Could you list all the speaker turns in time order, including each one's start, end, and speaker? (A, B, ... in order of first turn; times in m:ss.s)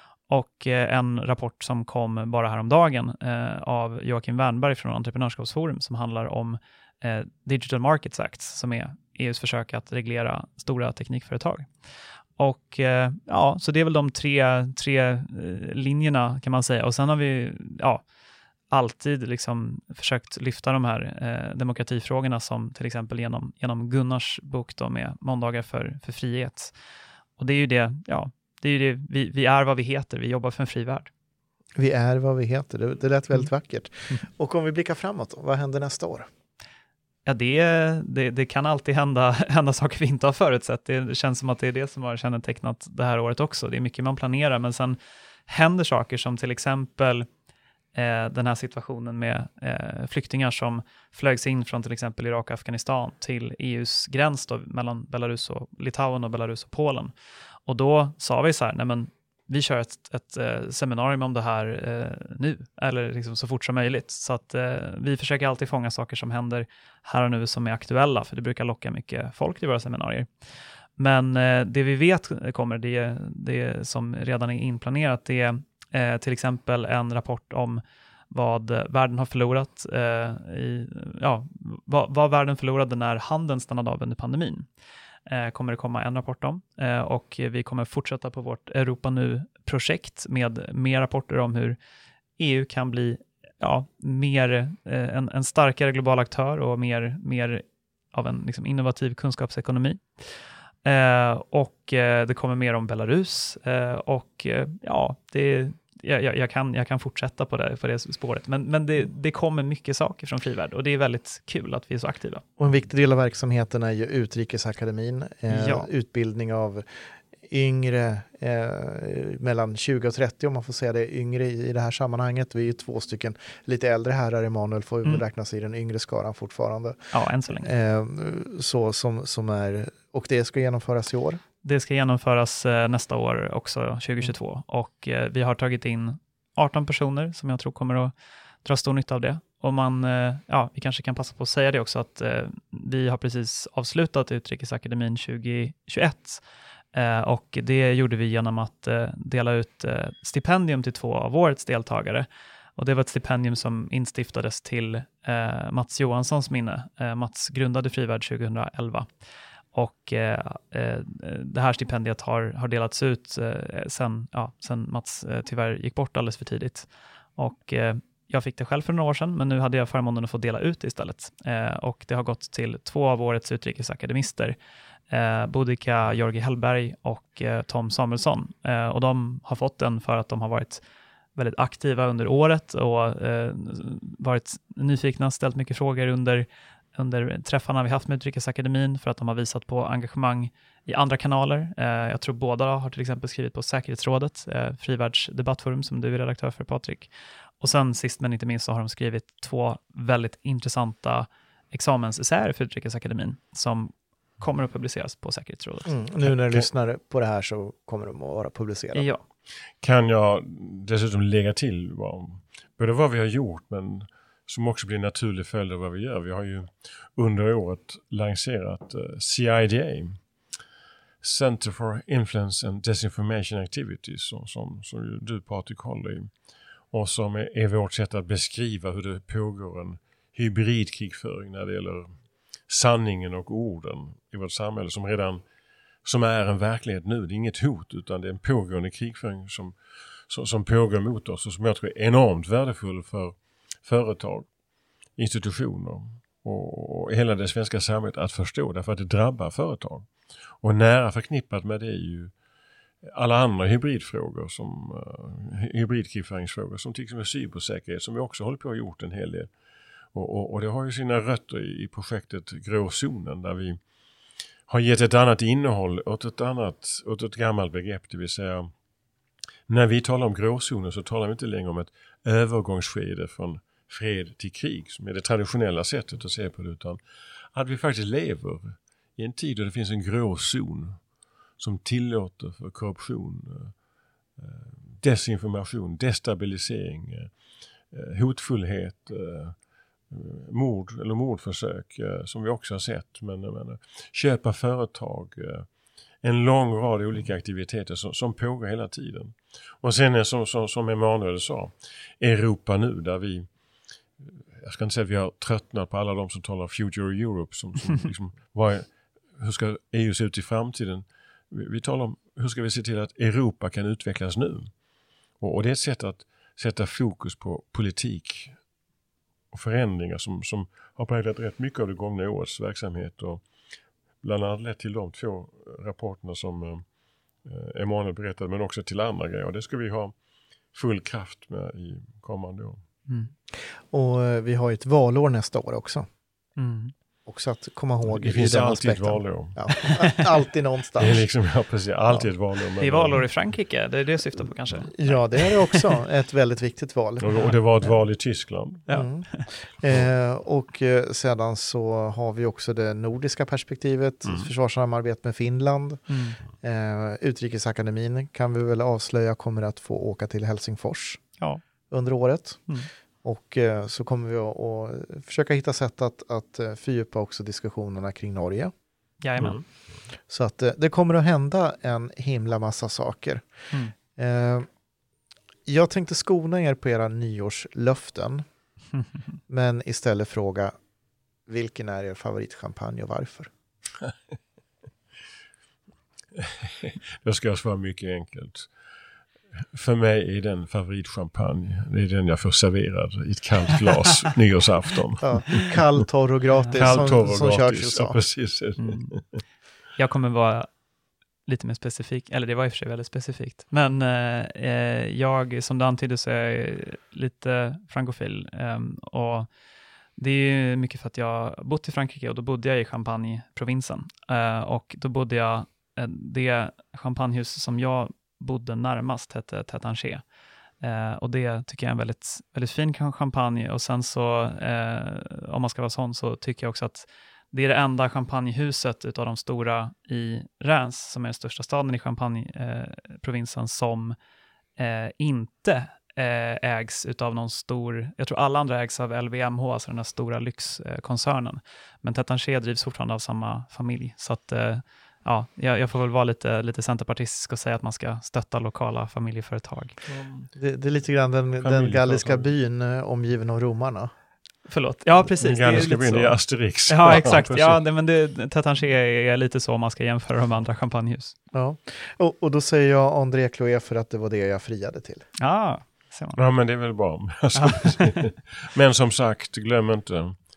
0:00.3-0:11.7 A
0:12.4-0:18.0 A
0:18.7-0:26.7 A
0:27.4-0:31.1 A
0:31.8-0:36.3 B
0:37.3-0:47.3 A
0:48.0-0:57.1 A
0:57.7-1:10.3 A
1:11.0-1:24.7 A
1:25.3-1:31.8 A
1:32.4-1:52.4 A
1:52.6-1:56.8 B
1:55.5-1:55.9 A
1:57.4-2:07.0 B
2:07.1-2:07.7 A
2:07.6-2:11.4 B
2:11.6-2:18.1 A
2:18.6-2:26.4 A
2:26.9-2:39.1 A
2:39.7-2:54.6 A
2:55.1-3:00.8 A
3:01.4-3:17.1 A
3:17.6-3:25.9 A
3:25.9-3:29.1 B
3:26.2-3:26.7 C
3:28.9-3:29.2 A
3:29.8-3:40.2 C
3:41.2-3:46.3 C
3:46.9-3:52.2 C
3:52.7-3:55.4 C
3:56.0-3:59.8 C
4:00.3-4:04.5 C
4:05.2-4:12.3 C
4:13.0-4:19.5 C
4:20.1-4:23.8 C
4:24.7-4:28.7 C
4:29.7-4:37.0 C
4:37.5-4:41.0 C
4:41.6-4:43.7 C
4:44.4-4:47.3 C
4:47.9-4:49.6 C
4:50.1-4:55.7 C
4:56.2-5:03.5 C
5:04.6-5:14.7 C
5:15.4-5:18.6 C
5:19.5-5:23.4 C
5:24.2-5:26.8 C
5:27.4-5:30.1 C
5:30.7-5:32.8 C
5:33.5-5:36.1 B
5:36.6-5:36.9 A
5:37.3-5:41.2 B
5:38.1-5:39.6 C
5:39.8-5:40.3 A
5:41.0-5:43.2 C
5:42.8-5:46.0 A
5:44.8-5:47.3 B
5:47.2-5:48.8 C
5:48.9-5:49.5 A
5:48.9-5:56.1 B
5:56.1-5:56.4 A
5:56.6-6:01.2 B
6:01.9-6:02.7 B
6:03.2-6:08.7 B
6:09.2-6:09.6 A
6:09.4-6:09.6 C
6:10.3-6:13.4 B
6:14.2-6:14.7 B
6:15.7-6:18.4 B
6:19.5-6:20.7 B
6:21.5-6:23.5 B
6:26.4-6:28.7 C
6:29.7-6:35.7 C
6:35.2-6:38.2 B
6:36.7-6:39.4 C
6:38.8-6:39.2 A
6:40.0-6:40.7 A
6:41.5-6:49.5 A
6:50.2-7:00.2 A
7:00.8-7:14.2 A
7:14.8-7:30.0 A
7:30.1-7:30.5 C
7:30.6-7:34.1 B
7:31.6-7:32.5 C
7:34.7-7:41.3 A
7:35.4-7:37.8 C
7:41.5-7:45.2 B
7:45.4-7:46.4 A
7:46.4-7:50.4 C
7:47.6-7:48.2 A